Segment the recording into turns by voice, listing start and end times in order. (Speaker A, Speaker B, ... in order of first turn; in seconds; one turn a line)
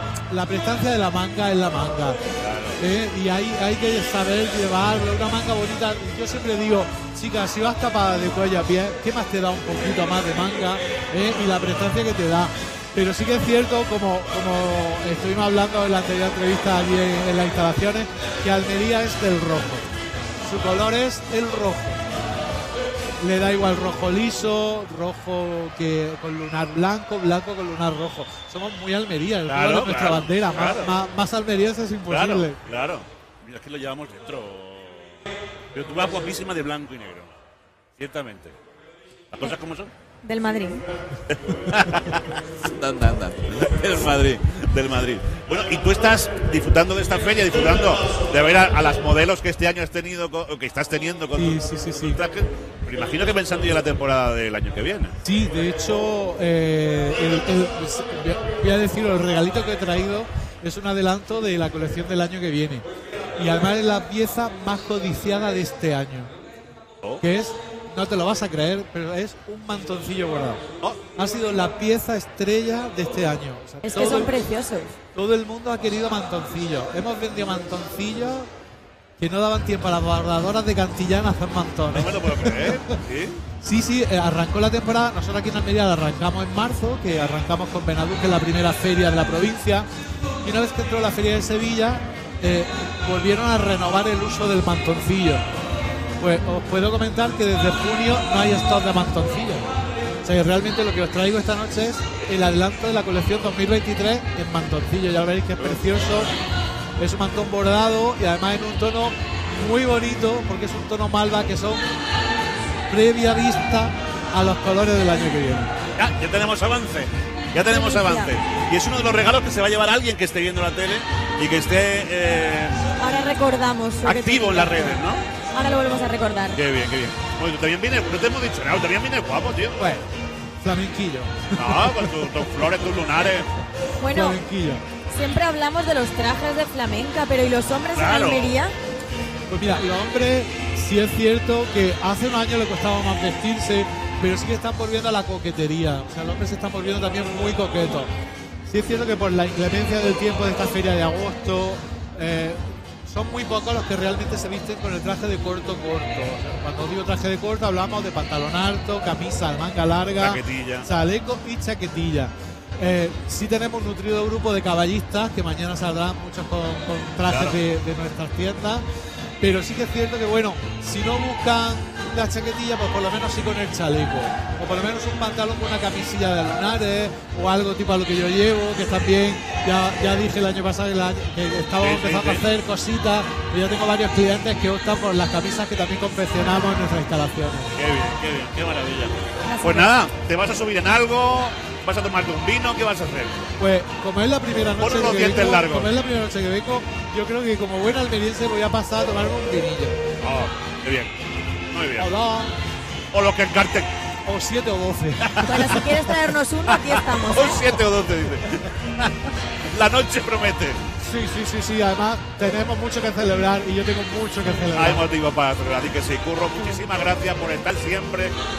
Speaker A: 0.3-2.2
Speaker B: 2.4-2.8
Speaker A: 2.8-19.9
Speaker A: 20.4-22.0
Speaker A: 23.2-32.6
Speaker B: 29.5-30.9
Speaker B: 32.1-35.2
Speaker B: 35.7-37.4
Speaker B: 38.0-38.5
Speaker B: 39.3-39.9
Speaker C: 40.2-40.8
Speaker B: 41.3-55.2
Speaker A: 51.4-52.2
Speaker A: 55.2-62.9
Speaker A: 63.4-66.3
Speaker A: 67.2-70.6
Speaker A: 71.2-74.3
Speaker C: 73.8-75.0
Speaker A: 75.2-78.5
Speaker A: 79.2-83.0
Speaker B: 81.9-83.4
Speaker A: 83.6-89.9
Speaker A: 90.4-95.4
Speaker A: 96.2-99.7
Speaker A: 100.2-106.3
Speaker A: 107.0-111.8
Speaker A: 112.9-115.7
Speaker B: 116.0-122.8
Speaker C: 117.7-118.3
Speaker C: 123.0-125.0
Speaker B: 124.0-125.2
Speaker C: 125.5-126.6
Speaker B: 126.5-129.8
Speaker A: 129.8-130.0
Speaker A: 130.6-132.1
Speaker B: 131.6-133.5
Speaker C: 134.0-134.4
Speaker A: 134.1-134.8
Speaker C: 135.1-138.7
Speaker B: 137.9-138.6
Speaker A: 139.5-148.1
Speaker A: 148.7-168.8
Speaker B: 160.2-160.9
Speaker B: 167.3-167.6
Speaker A: 169.4-187.7
Speaker B: 181.8-182.4
Speaker B: 187.8-193.4
Speaker C: 189.5-189.9
Speaker A: 193.6-200.0
Speaker B: 194.8-195.9
Speaker B: 200.2-201.1
Speaker B: 201.7-202.1
Speaker A: 202.0-202.6
Speaker B: 203.1-203.9
Speaker A: 204.3-205.8
Speaker B: 205.2-205.8
Speaker C: 205.4-207.8
Speaker B: 206.7-210.8
Speaker A: 211.0-215.0
Speaker B: 214.8-218.3